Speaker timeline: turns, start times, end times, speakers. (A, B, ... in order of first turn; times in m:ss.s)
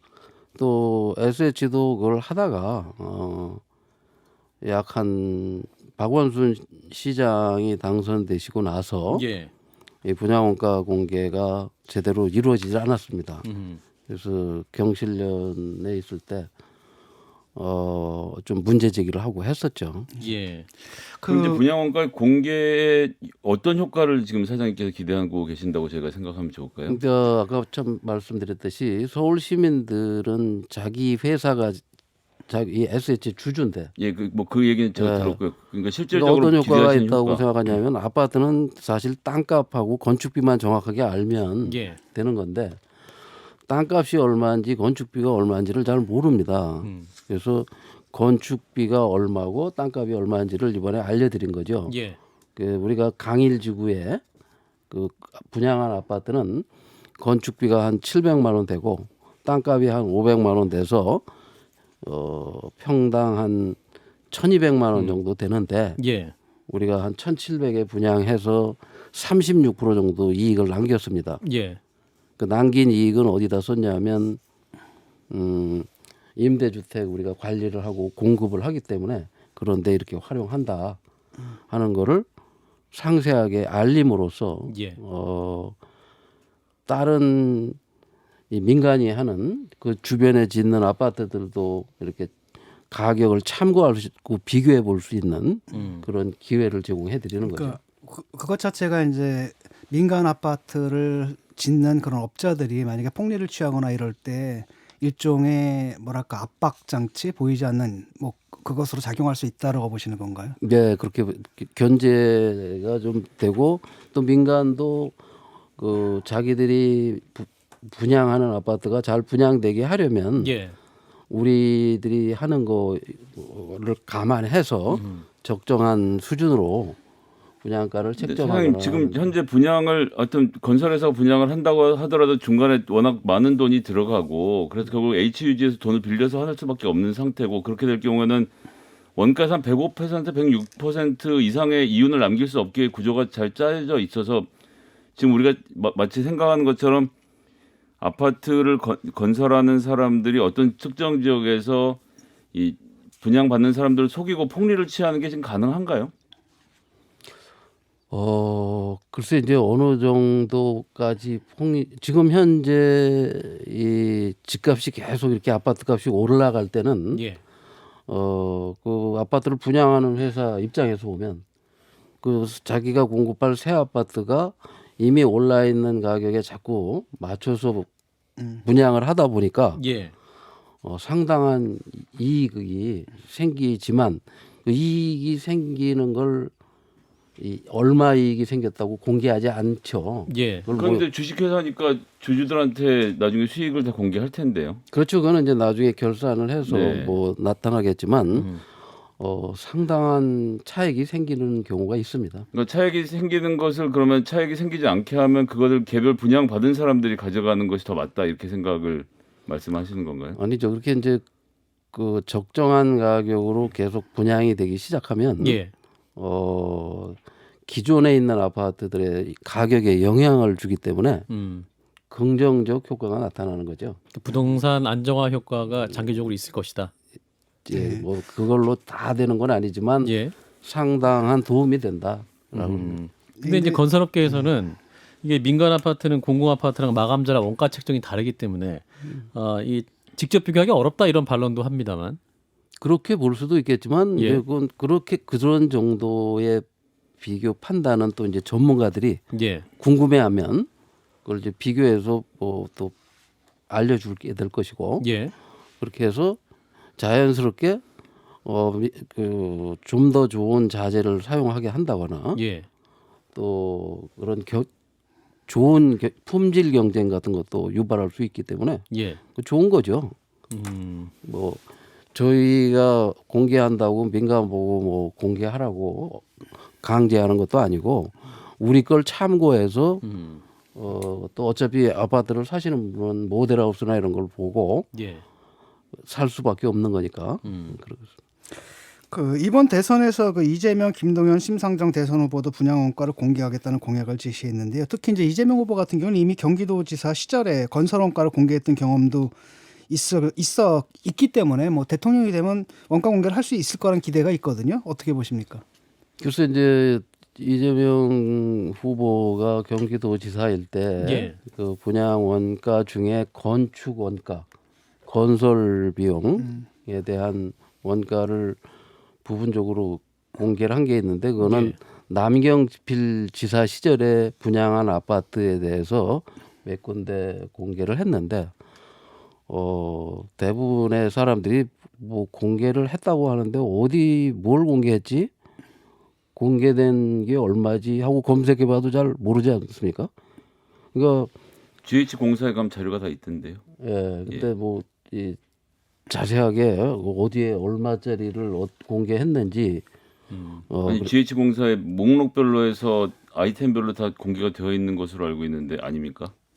0:00.6-0:03.6 A
0:04.6-0:09.2 A
0:09.1-0:09.5 B
0:10.0-0:13.4 A
0:13.4-0:13.8 B
0:14.1-0:16.5 A
0:17.5-0:20.1 A
0:20.2-0:20.7 B
0:21.2-0:21.6 C
0:21.2-0:27.0 D
0:26.9-0:31.8 A
0:32.5-0:33.9 A
0:34.0-0:37.4 D
0:35.0-0:35.4 A
0:36.1-0:42.8 A
0:41.6-0:42.0 B
0:43.7-0:51.9 A
0:46.8-0:47.1 B
0:51.9-0:52.2 B
0:52.6-0:54.2 A
0:54.9-0:56.6 A
0:57.2-1:01.2 A
1:02.0-1:03.8 A
1:04.3-1:06.0 A
1:06.0-1:06.3 B
1:06.7-1:11.4 A
1:11.4-1:11.8 B
1:12.4-1:14.4 A
1:15.3-1:21.0 A
1:21.7-1:22.2 A
1:22.9-1:25.8 A
1:24.7-1:25.0 B
1:26.9-1:27.8 A
1:28.5-1:32.3 A
1:32.9-1:37.8 A
1:35.7-1:36.0 B
1:37.5-1:50.6 C
1:50.6-1:55.1 A
1:55.8-2:00.5 A
2:00.4-2:00.7 B
2:01.3-2:07.0 A
2:04.9-2:05.2 B
2:07.6-2:09.3 A
2:08.2-2:18.5 D
2:19.2-2:24.5 D
2:25.2-2:27.1 D
2:28.0-2:32.0 D
2:32.5-2:36.1 D
2:38.1-2:47.2 A
2:47.1-2:47.4 B
2:48.1-2:51.4 A
2:52.2-2:57.9 A
2:58.6-2:59.8 A
2:59.8-3:00.1 B
3:00.8-3:06.5 A
3:07.4-3:11.0 A
3:10.3-3:10.7 B
3:10.7-3:14.8 D
3:14.9-3:18.5 A
3:16.6-3:17.2 D
3:18.4-3:18.6 B
3:19.2-3:22.4 A
3:22.5-3:30.4 D
3:30.4-3:31.2 A
3:31.9-3:35.6 A
3:35.4-3:35.7 B
3:36.2-3:41.3 A
3:41.3-3:41.7 B
3:42.1-3:44.0 A
3:44.1-3:46.9 B
3:47.6-3:53.0 A
3:47.7-3:48.0 C
3:50.0-3:50.3 B
3:52.5-4:02.2 B
3:53.4-3:53.8 C
4:02.8-4:06.6 A
4:04.2-4:04.4 B
4:07.2-4:09.2 A
4:09.3-4:09.6 B
4:09.8-4:10.7 A
4:11.2-4:12.9 A
4:13.7-4:15.0 A
4:15.0-4:15.3 B
4:15.8-4:16.4 A
4:17.0-4:17.8 A
4:18.4-4:22.4 A
4:22.3-4:22.7 B
4:23.3-4:24.7 A
4:25.5-4:30.1 A
4:28.9-4:29.2 B
4:30.5-4:31.1 B
4:31.2-4:31.6 A
4:32.1-4:40.0 A
4:40.0-4:40.4 B
4:40.7-4:44.9 A
4:44.9-4:45.2 B
4:46.0-4:48.1 A
4:47.4-4:47.8 B
4:49.1-4:59.3 C
4:59.9-5:05.6 C
5:06.2-5:14.5 A
5:11.0-5:11.4 B
5:15.0-5:18.6 A
5:19.2-5:28.5 A
5:21.4-5:21.8 B
5:29.5-5:35.3 A
5:36.3-5:40.1 A
5:40.9-5:41.3 A
5:41.8-5:43.6 D
5:43.8-5:45.4 A
5:46.1-5:49.8 A
5:50.3-5:50.6 B
5:50.7-5:51.1 A
5:50.8-5:56.3 D